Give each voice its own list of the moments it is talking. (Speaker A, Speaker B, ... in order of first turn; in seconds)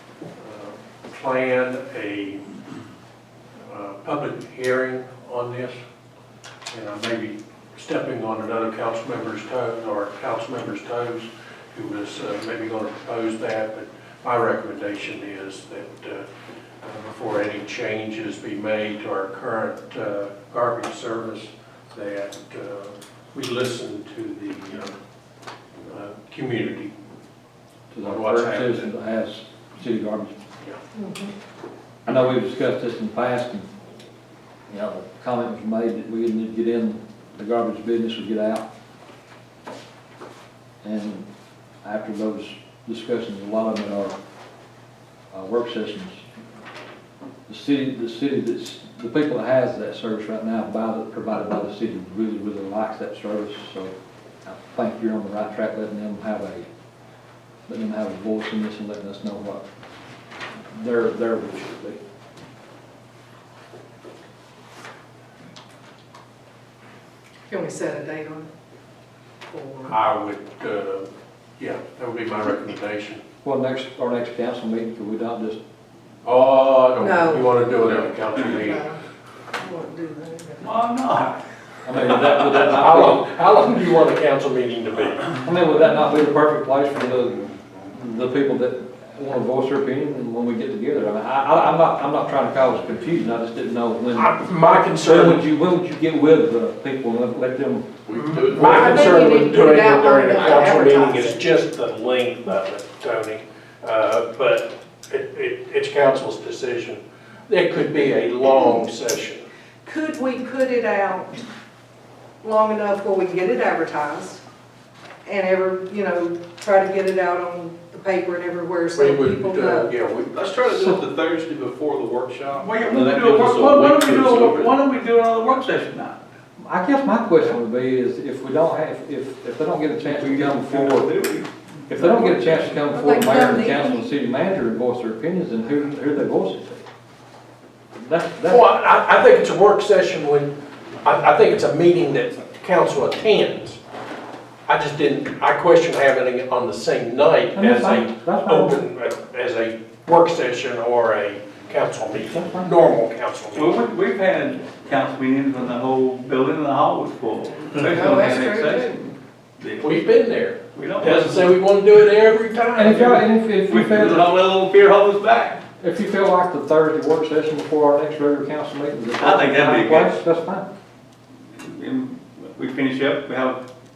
Speaker A: 0.3-2.5, 3.6-5.8, 6.7-16.2, 16.8-24.9, 25.8-26.9, 28.0-28.9, 69.9-73.2, 76.2-78.8, 82.7-85.3, 94.1-95.4, 98.5-109.5, 118.9-120.3, 138.4-143.8, 144.7-153.8, 159.8-163.3
Speaker B: 27.9-30.3, 32.0-33.7, 34.7-38.6, 40.8-41.3, 41.8-44.1, 45.3-46.2, 47.5-53.9, 54.4-56.7, 57.7-59.6, 60.7-62.0, 73.4-75.6, 81.8-83.2, 85.4-97.9, 120.7-121.0, 126.6-131.1, 131.9-136.8, 137.9-138.7, 147.5-148.8, 152.2-152.7, 162.8-164.3, 165.8-170.7
Speaker C: 30.9-31.3, 67.5-68.5, 69.5-69.9, 77.0-77.5, 78.5-79.0, 79.5-80.7, 98.6-101.4, 109.8-111.4, 112.4-114.4, 115.2-119.9, 132.9-134.0, 157.8-159.0
Speaker D: 80.6-81.4, 122.5-126.2, 130.0-132.8, 153.5-160.1, 160.7-161.5, 163.7-165.6, 169.2-170.2, 171.6-173.6
Speaker E: 98.0-99.1, 120.2-124.8